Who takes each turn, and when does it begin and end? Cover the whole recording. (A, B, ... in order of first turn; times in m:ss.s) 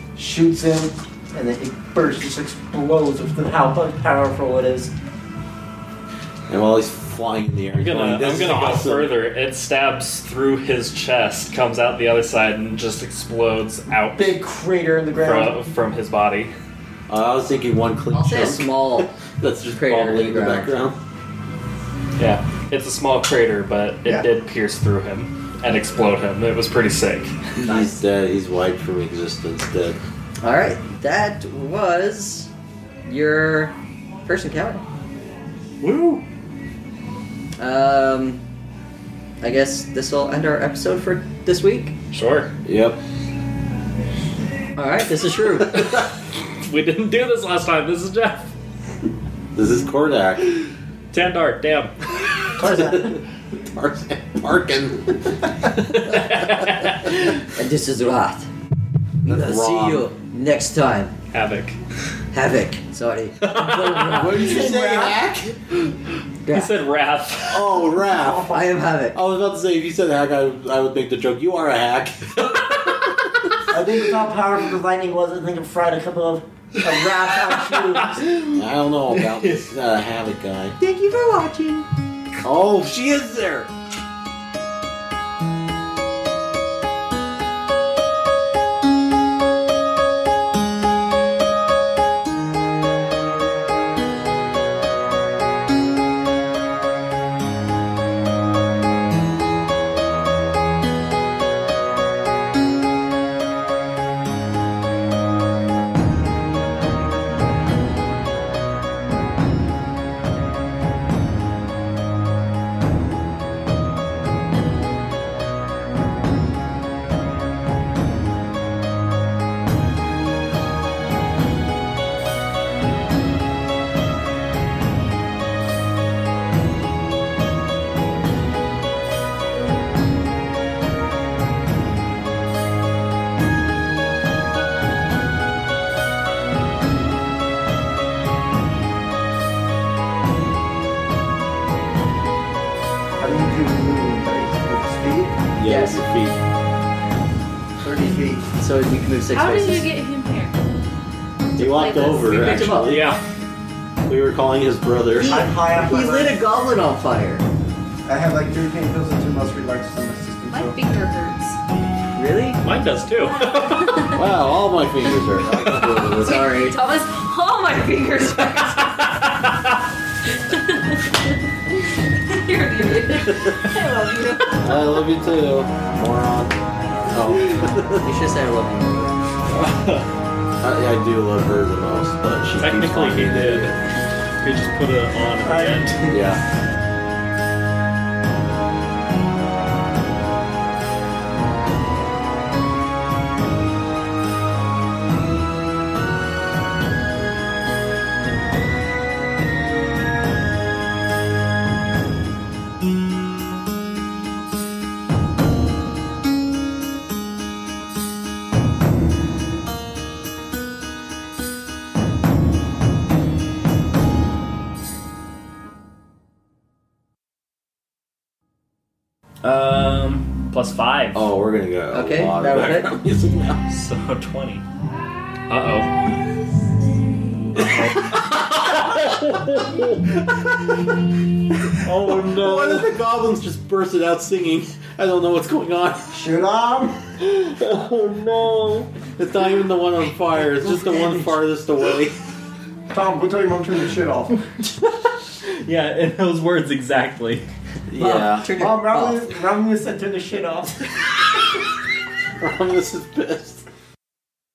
0:00.2-0:04.9 A
0:06.5-0:09.1 B
0:07.8-0:14.4 C
0:14.1-0:15.6 A
0:15.2-0:16.5 C
0:17.1-0:21.0 B
0:18.1-0:19.1 D
0:19.7-0:20.7 D
0:22.2-0:27.4 C
0:27.6-0:30.0 B
0:30.4-0:32.5 D
0:33.0-0:33.7 D
0:34.2-0:34.8 D
0:35.8-0:36.2 C
0:37.6-0:38.4 D
0:39.4-0:41.9 D
0:42.1-0:42.5 C
0:42.6-0:43.0 B
0:44.8-0:46.0 D
0:46.6-0:48.5 C
0:49.5-0:50.4 B
0:51.1-0:51.9 C
0:52.6-0:53.2 A
0:52.6-0:55.4 B
0:55.7-0:57.3 C
0:57.5-0:58.5 D
0:59.2-1:01.1 D
0:59.2-1:00.1 B
1:01.3-1:01.8 C
1:02.3-1:04.3 D
1:03.4-1:04.4 C
1:04.1-1:05.6 B
1:04.1-1:05.2 A
1:06.4-1:06.7 D
1:06.4-1:07.6 C
1:07.4-1:08.5 B
1:08.0-1:08.7 A
1:08.5-1:09.2 D
1:09.1-1:12.5 B
1:12.4-1:13.2 C
1:13.7-1:18.3 A
1:17.7-1:19.6 C
1:18.5-1:20.8 B
1:20.8-1:21.8 D
1:22.4-1:23.7 B
2:23.2-2:25.4 A
2:25.5-2:26.4 B
2:25.6-2:26.0 D
2:27.8-2:28.4 A
2:28.6-2:29.9 D
2:29.3-2:30.6 E
2:31.6-2:32.9 E
2:31.6-2:33.1 B
2:32.2-2:33.0 D
2:32.8-2:33.2 C
2:34.1-2:35.4 B
2:35.2-2:37.4 D
2:35.2-2:36.4 A
2:38.0-2:40.9 A
2:40.5-2:41.6 E
2:42.2-2:42.6 D
2:42.6-2:44.1 C
2:43.3-2:44.2 E
2:44.1-2:46.4 B
2:45.6-2:46.0 C
2:45.7-2:49.2 E
2:46.0-2:46.8 D
2:48.4-2:49.6 C
2:50.3-2:51.1 E
2:52.3-2:54.9 E
2:53.3-2:53.6 B
2:54.6-2:56.5 B
2:57.1-2:58.0 B
2:58.0-2:59.1 D
2:59.5-3:00.0 C
3:00.6-3:03.8 B
3:02.6-3:03.8 C
3:04.4-3:06.1 C
3:05.4-3:06.2 A
3:06.1-3:06.4 B
3:39.4-3:41.2 C
3:41.1-3:43.6 B
3:41.9-3:43.0 D
3:43.7-3:44.6 C
3:45.5-3:46.0 C
3:47.5-3:48.8 B
3:47.6-3:50.2 C
3:51.8-3:52.9 C
3:51.8-3:56.2 B
3:56.1-3:57.0 A
3:57.2-3:58.9 C
3:59.2-4:02.2 B
4:02.9-4:04.4 A
4:04.8-4:07.4 C
4:07.9-4:08.5 B
4:08.0-4:09.3 D
4:08.5-4:10.9 A
4:12.4-4:13.6 B